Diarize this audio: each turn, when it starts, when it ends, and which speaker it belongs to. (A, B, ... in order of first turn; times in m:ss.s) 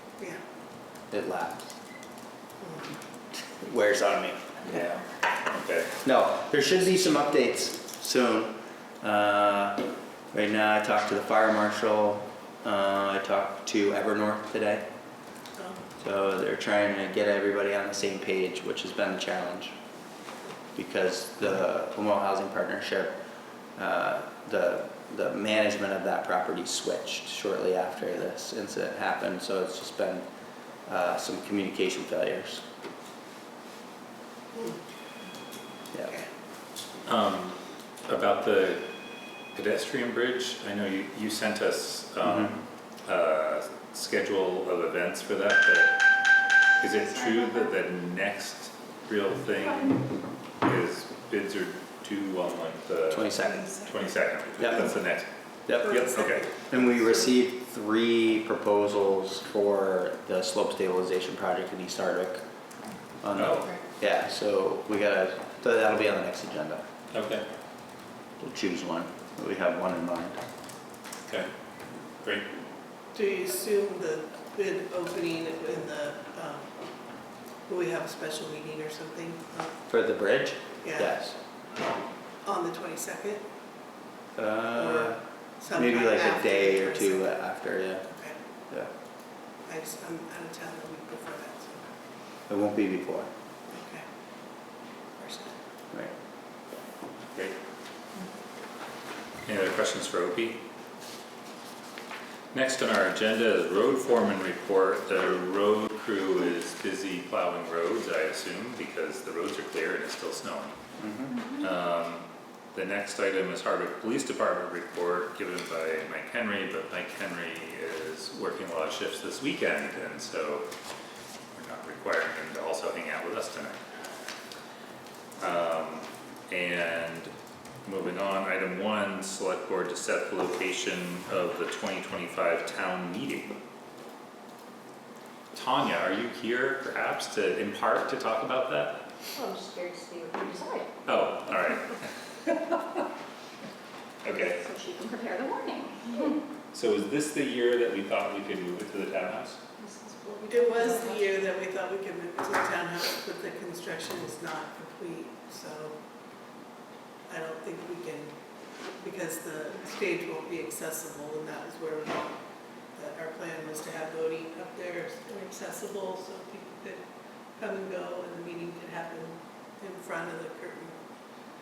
0:01.1-0:01.7 A
0:02.6-0:02.8 B
0:03.5-0:04.4 A
0:04.6-0:06.0 C
0:06.0-0:14.8 A
0:15.6-0:15.8 B
0:16.0-0:19.7 A
0:20.8-0:23.1 A
0:23.8-0:30.3 A
0:30.8-0:32.6 A
0:34.5-0:34.8 B
0:37.0-0:38.8 C
0:39.5-0:46.0 C
0:42.3-0:42.5 A
0:46.8-0:56.5 C
0:53.1-0:53.7 A
0:54.6-0:54.9 A
0:55.7-0:56.1 A
0:55.9-0:56.7 B
0:56.7-1:02.4 A
1:03.2-1:06.8 A
1:03.3-1:03.8 C
1:07.1-1:07.4 C
1:08.4-1:10.4 A
1:12.2-1:12.5 C
1:13.1-1:16.7 B
1:17.7-1:19.8 B
1:19.9-1:21.4 A
1:20.8-1:21.1 B
1:22.4-1:23.4 B
1:24.4-1:28.0 A
1:24.8-1:27.2 B
1:28.1-1:28.4 B
1:29.6-1:31.9 B
1:32.5-1:33.3 A
1:33.7-1:34.0 B
1:35.2-1:35.5 B
1:39.4-1:40.6 C
1:42.5-1:50.8 C
1:51.0-1:51.5 A
1:51.5-2:00.7 C
2:01.5-2:03.8 C
2:05.4-2:07.3 C
2:07.8-2:13.6 C
2:15.5-2:19.0 C
2:19.4-2:20.9 D
2:21.0-2:23.0 C
2:24.2-2:24.6 C
2:24.6-2:26.2 D
2:26.7-2:29.6 C
2:29.8-2:31.5 D
2:30.4-2:35.9 B
2:37.3-2:38.3 B
2:39.0-2:42.3 B
2:42.9-2:47.0 B
2:47.6-2:51.0 B